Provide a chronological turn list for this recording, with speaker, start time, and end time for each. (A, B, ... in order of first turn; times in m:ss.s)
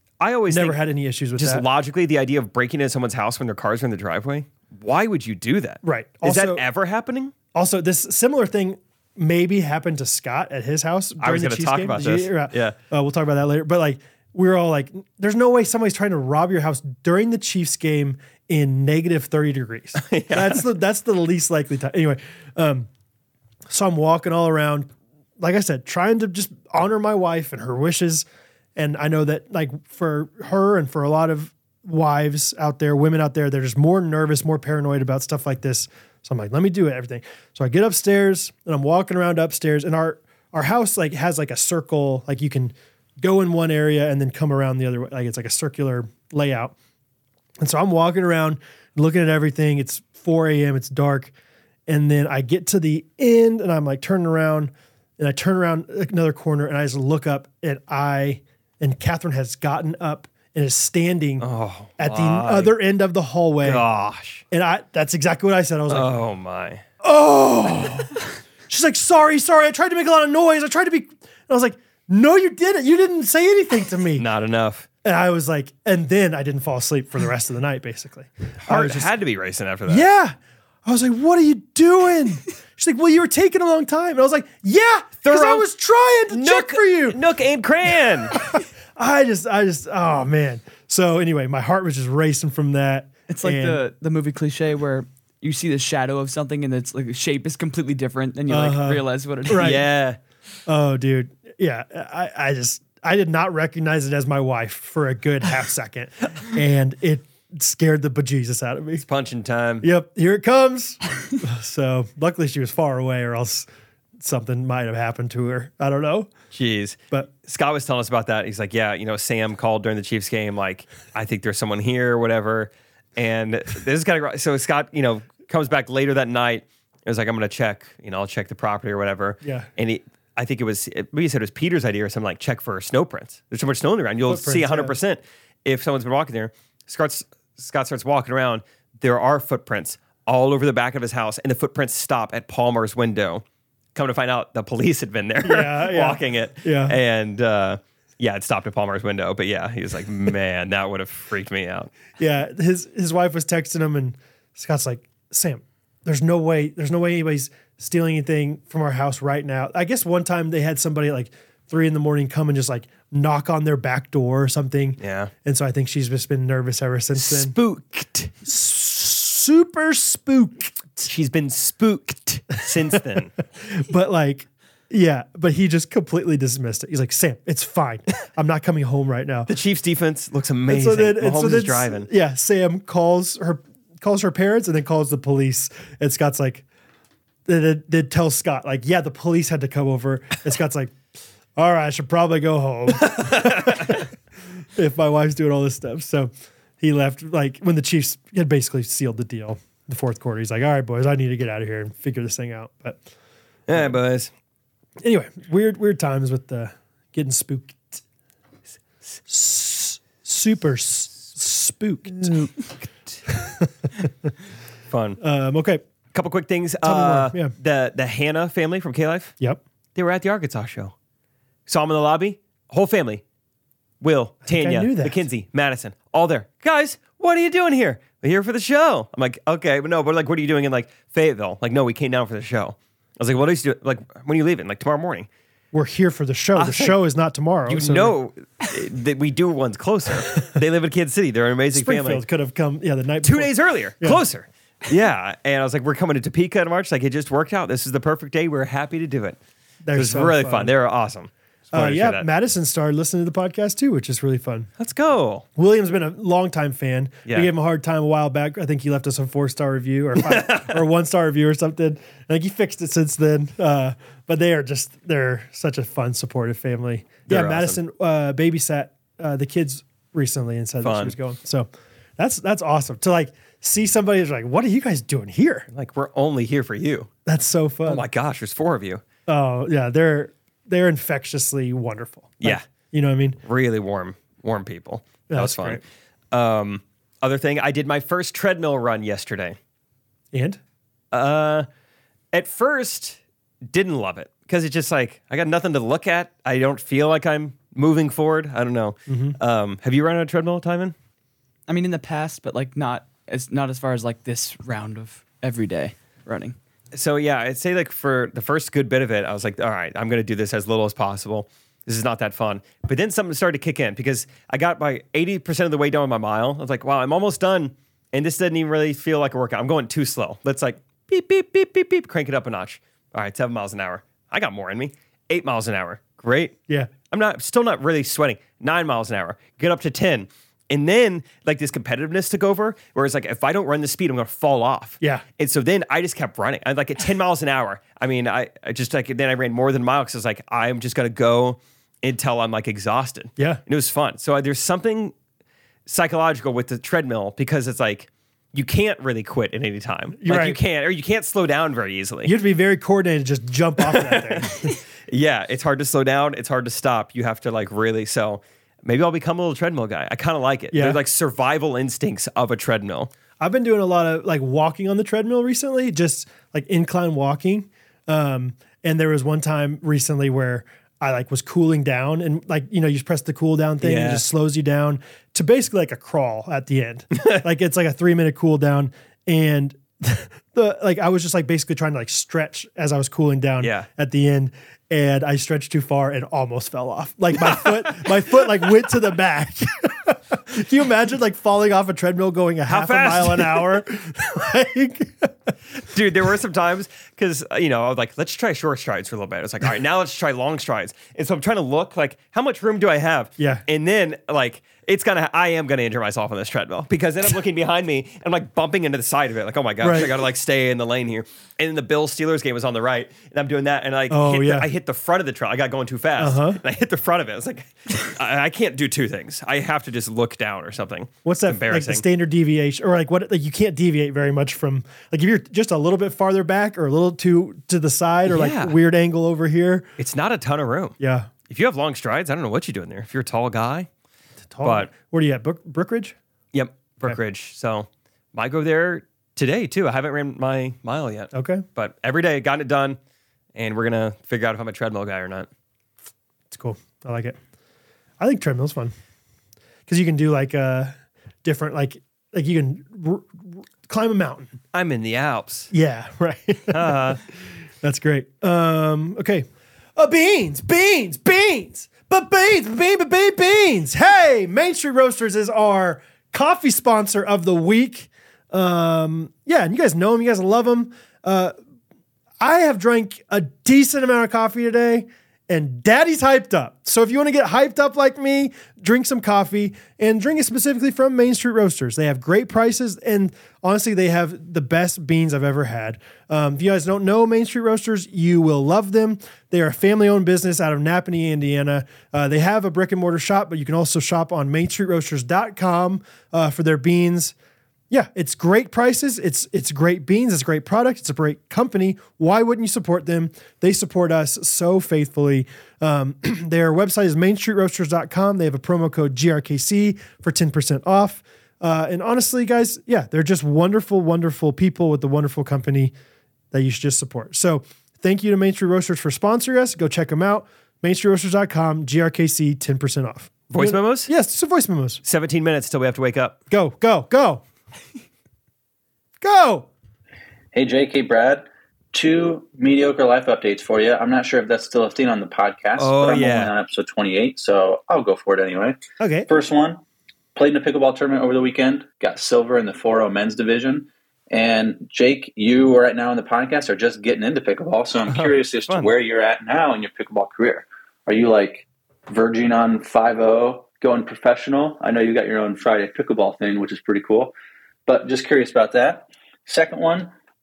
0:00.2-0:00.8 A
0:00.5-0:01.6 B
0:01.4-0:07.3 A
0:05.8-0:06.6 B
0:07.5-0:22.9 B
0:11.2-0:12.8 A
0:20.0-0:20.7 A
0:23.7-0:28.2 B
0:28.8-0:46.7 B
0:47.6-0:51.3 B
0:51.9-1:01.4 B
1:01.4-1:02.8 A
1:02.0-1:03.8 B
1:03.6-1:04.4 A
1:04.5-1:06.2 B
1:05.9-1:06.8 A
1:07.0-1:08.1 B
1:08.7-1:14.2 B
1:14.2-1:14.9 A
1:15.0-1:19.1 B
1:18.6-1:20.0 A
1:19.9-1:27.2 B
1:25.2-1:25.6 A
1:26.3-1:28.3 A
1:28.5-1:33.8 B
1:33.3-1:39.8 C
1:38.5-1:39.8 B
1:39.6-1:40.2 A
1:40.7-1:49.0 B
1:49.0-1:49.9 A
1:49.8-1:53.7 B
1:54.2-1:56.3 B
1:56.5-2:23.4 A
2:09.4-2:09.7 B
2:14.2-2:15.0 B
2:23.9-2:31.9 A
2:25.4-2:27.0 B
2:32.2-2:47.6 B
2:45.0-2:45.3 A
2:47.1-2:48.3 A
2:48.4-2:51.1 B
2:51.0-2:53.3 A
2:53.6-2:59.5 B
2:59.5-3:02.1 A
3:00.7-3:06.6 B
3:07.4-3:10.9 B
3:11.6-3:14.1 B
3:13.1-3:13.9 A
3:14.8-3:23.0 B
3:23.7-3:24.3 A
3:25.0-3:28.0 B
3:29.3-3:32.4 B
3:32.2-3:32.5 A
3:33.3-3:33.7 B
3:34.9-3:35.2 A
3:35.2-3:35.8 B
3:36.1-3:39.3 A
3:36.8-3:37.5 B
3:39.9-3:40.9 A
3:41.7-3:43.2 A
3:44.0-3:55.3 A
3:44.4-3:45.2 B
3:55.7-3:58.1 B
3:56.6-3:57.0 A
3:57.6-4:02.2 A
4:01.7-4:04.2 B
4:03.2-4:09.4 A
4:09.8-4:10.7 B
4:09.9-4:12.3 A
4:11.7-4:14.7 B
4:14.8-4:15.4 A
4:15.6-4:35.7 B
4:17.2-4:17.5 A
4:20.2-4:20.8 A
4:27.3-4:27.8 A
4:30.8-4:31.2 A
4:35.7-4:37.1 A
4:37.2-4:38.0 B
4:37.8-4:39.0 A
4:39.3-4:43.4 B
4:43.4-4:49.6 A
4:45.3-4:45.8 B
4:50.3-4:50.6 B
4:51.1-4:51.7 A
4:52.3-5:00.9 A
4:59.1-4:59.4 B
5:01.7-5:06.6 C
5:06.9-5:26.6 A
5:27.1-5:45.1 A
5:45.8-5:52.3 A
5:50.2-5:50.6 B
5:52.2-5:54.7 B
5:53.8-6:03.1 A
6:00.7-6:01.0 B
6:03.4-6:35.3 B
6:13.8-6:14.2 A
6:17.2-6:17.4 A
6:23.6-6:23.9 A
6:27.4-6:28.1 A
6:32.7-6:33.8 A
6:35.8-7:02.0 A
6:43.4-6:43.6 B
6:49.8-6:50.1 B
6:54.1-6:54.7 B
6:56.2-6:56.6 B
7:01.2-7:09.9 B
7:08.2-7:08.8 A
7:10.0-7:11.0 A
7:11.0-7:11.3 B
7:11.5-7:13.9 A
7:14.5-7:16.2 B
7:14.6-7:14.9 A
7:16.5-7:23.0 A
7:21.3-7:21.6 B
7:23.5-7:25.5 A
7:26.5-7:27.4 B
7:28.2-7:28.9 B
7:29.9-7:34.6 B
7:34.7-7:35.7 A
7:35.7-7:37.2 B
7:36.7-7:37.2 A
7:37.8-7:51.5 B
7:52.4-8:17.3 B
8:17.9-8:35.9 B
8:36.5-8:45.0 B
8:43.5-8:44.1 A
8:45.0-8:46.4 A
8:46.5-8:47.4 B
8:49.2-8:49.7 B
8:50.5-8:59.8 D
8:55.8-8:56.5 A
8:59.0-8:59.3 B
9:00.3-9:17.3 D
9:08.1-9:08.9 A
9:17.9-9:20.1 D